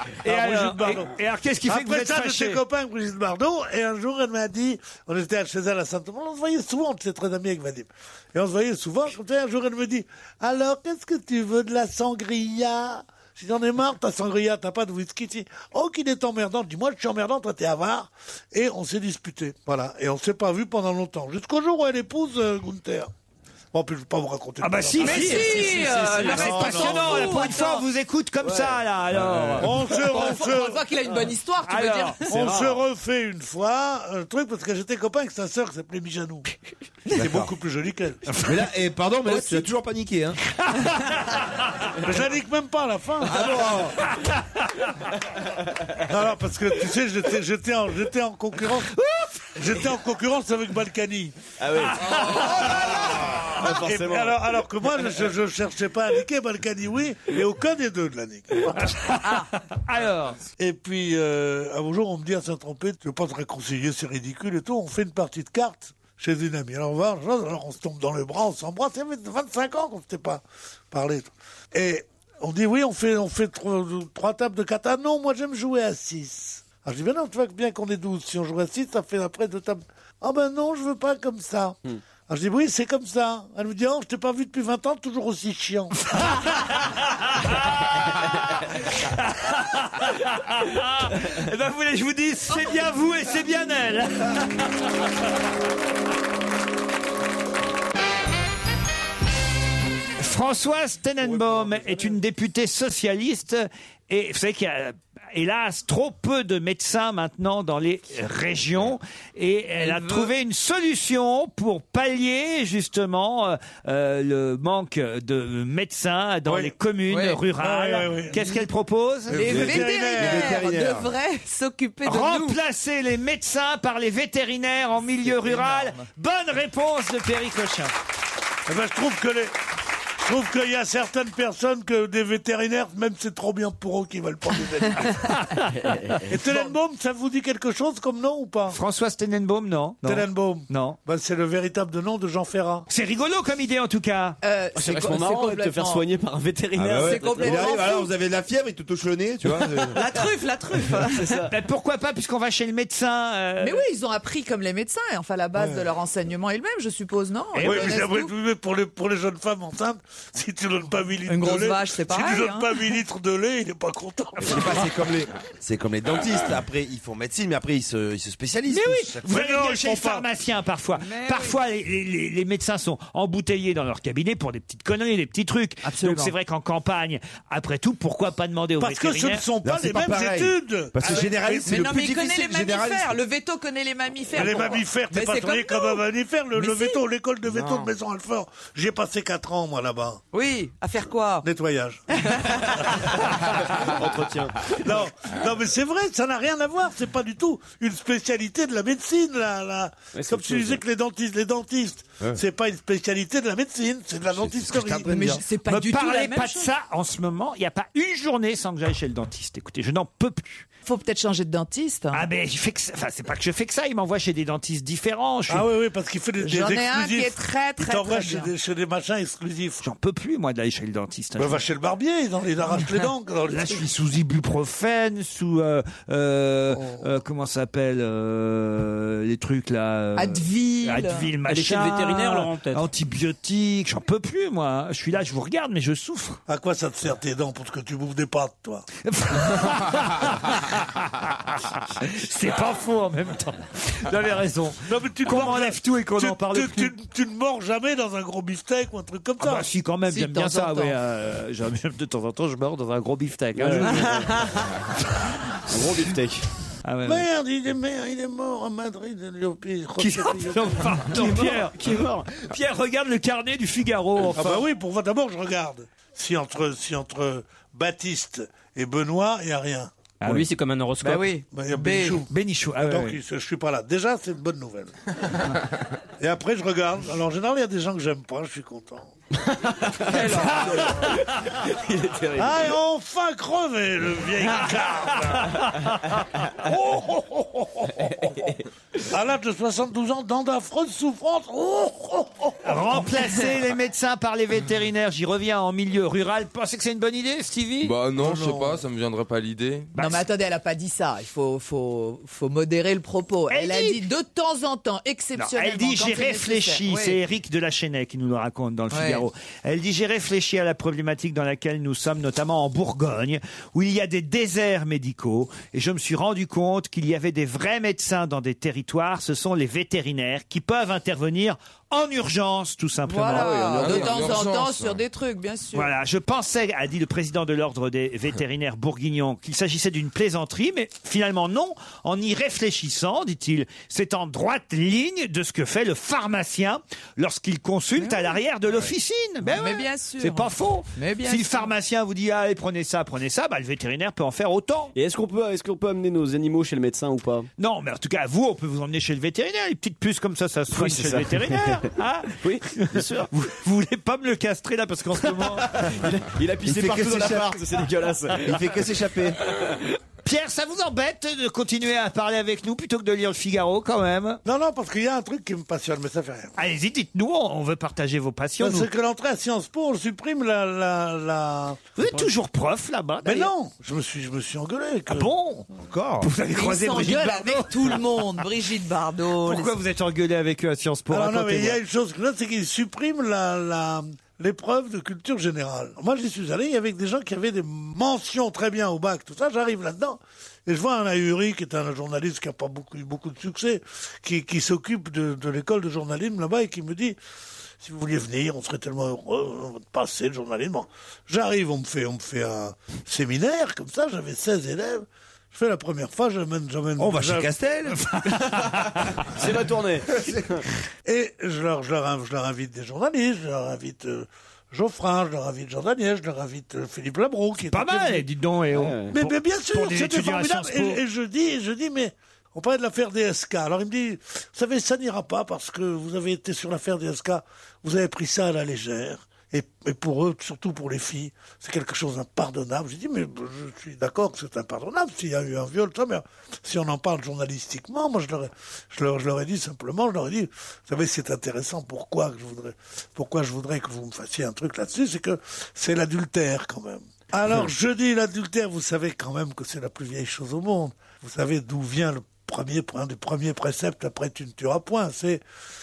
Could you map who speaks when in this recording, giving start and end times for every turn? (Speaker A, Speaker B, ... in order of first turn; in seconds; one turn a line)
Speaker A: 0.2-2.6
Speaker B: 0.2-23.1
Speaker B: 23.7-25.3
Speaker A: 24.6-29.7
Speaker C: 25.0-27.8
Speaker D: 25.1-26.4
Speaker B: 26.3-27.3
Speaker D: 28.4-29.7
Speaker B: 29.6-30.8
Speaker C: 29.9-32.5
Speaker A: 31.6-32.2
Speaker B: 32.3-36.5
Speaker D: 32.3-32.8
Speaker B: 37.1-38.2
Speaker E: 37.1-37.5
Speaker E: 38.4-40.4
Speaker C: 39.3-39.6
Speaker B: 42.0-43.5
Speaker E: 43.2-43.9
Speaker B: 46.0-49.0
Speaker A: 49.0-49.3
Speaker B: 49.5-51.4
Speaker D: 51.6-54.4
Speaker A: 52.0-52.7
Speaker B: 53.4-59.0
Speaker A: 58.8-60.4
Speaker C: 59.2-59.5
Speaker B: 60.6-86.1
Speaker A: 86.1-94.6
Speaker A: 100.2-119.6
Speaker B: 101.3-102.1
Speaker C: 109.8-110.3
Speaker B: 116.5-116.7
Speaker F: 117.1-117.4
Speaker B: 117.6-118.6
Speaker B: 119.3-120.6
Speaker C: 119.3-122.6
Speaker E: 119.4-121.1
Speaker A: 122.0-127.9
Speaker C: 125.2-126.0
Speaker B: 128.7-129.5
Speaker B: 130.2-135.3
Speaker A: 135.1-135.7
Speaker D: 135.8-136.2
Speaker B: 136.3-138.8
Speaker A: 138.7-141.0
Speaker B: 140.0-142.8
Speaker A: 142.9-144.4
Speaker C: 144.4-146.0
Speaker D: 144.7-147.8
Speaker E: 146.8-150.0
Speaker C: 147.0-148.1
Speaker D: 149.5-149.9
Speaker C: 149.9-151.4
Speaker D: 151.0-151.5
Speaker A: 151.5-153.8
Speaker C: 153.6-158.3
Speaker B: 155.6-155.9
Speaker A: 157.5-158.0
Speaker B: 157.6-164.8
Speaker C: 161.2-162.9
Speaker E: 164.4-169.2
Speaker A: 168.7-179.4
Speaker B: 169.2-170.2
Speaker C: 171.0-171.6
Speaker C: 175.8-176.3
Speaker B: 178.8-181.7
Speaker E: 179.6-183.2
Speaker C: 181.6-186.0
Speaker B: 184.3-190.2
Speaker C: 186.5-187.0
Speaker C: 190.3-191.4
Speaker B: 191.4-192.0
Speaker C: 192.1-193.0
Speaker B: 192.8-193.1
Speaker D: 193.5-194.9
Speaker B: 194.8-205.3
Speaker D: 200.1-200.8
Speaker E: 204.3-205.4
Speaker C: 205.0-206.7
Speaker A: 205.7-210.7
Speaker C: 210.8-212.2
Speaker A: 212.1-215.7
Speaker B: 215.5-219.8
Speaker C: 216.4-218.5
Speaker A: 219.8-221.6
Speaker B: 221.4-223.9
Speaker A: 223.5-236.4
Speaker B: 226.7-227.0
Speaker C: 230.2-231.3
Speaker G: 231.4-232.9
Speaker B: 236.5-238.8
Speaker A: 239.0-246.9
Speaker B: 244.8-249.7
Speaker A: 249.4-254.3
Speaker C: 250.1-250.9
Speaker D: 253.5-254.7
Speaker D: 255.7-256.4
Speaker A: 256.8-257.2
Speaker B: 257.0-260.9
Speaker A: 260.0-264.6
Speaker D: 261.1-262.3
Speaker B: 264.3-269.9
Speaker A: 270.2-270.5
Speaker G: 270.2-271.3
Speaker C: 271.1-271.4
Speaker B: 271.5-272.3
Speaker A: 271.8-273.2
Speaker B: 272.8-274.9
Speaker B: 276.2-279.1
Speaker D: 279.4-282.7
Speaker A: 280.1-281.2
Speaker B: 282.4-285.6
Speaker A: 285.3-286.0
Speaker B: 286.6-288.5
Speaker D: 287.9-288.6
Speaker B: 289.1-292.8
Speaker A: 292.6-297.9
Speaker F: 297.8-299.9
Speaker B: 298.2-298.8
Speaker A: 299.9-300.2
Speaker C: 299.9-307.2
Speaker A: 303.5-304.0
Speaker A: 305.4-324.3
Speaker C: 308.9-309.2
Speaker C: 323.0-325.9
Speaker F: 323.3-325.0
Speaker A: 325.7-344.9
Speaker C: 338.0-338.4
Speaker C: 339.4-341.7
Speaker D: 344.9-347.5
Speaker A: 347.6-355.9
Speaker D: 350.7-353.3
Speaker D: 355.4-358.7
Speaker E: 356.6-357.6
Speaker E: 358.3-359.4
Speaker A: 360.2-364.4
Speaker B: 364.4-366.5
Speaker A: 366.6-368.9
Speaker B: 368.6-371.8
Speaker A: 372.0-373.5
Speaker B: 373.2-375.3
Speaker A: 375.1-375.7
Speaker E: 375.9-376.3
Speaker A: 376.2-378.4
Speaker C: 376.5-379.8
Speaker A: 379.4-381.8
Speaker B: 381.1-397.2
Speaker B: 397.8-407.5
Speaker E: 407.0-408.0
Speaker A: 408.0-409.0
Speaker D: 409.3-410.6
Speaker B: 411.0-418.2
Speaker A: 417.7-421.0
Speaker D: 418.7-419.1
Speaker B: 419.1-455.4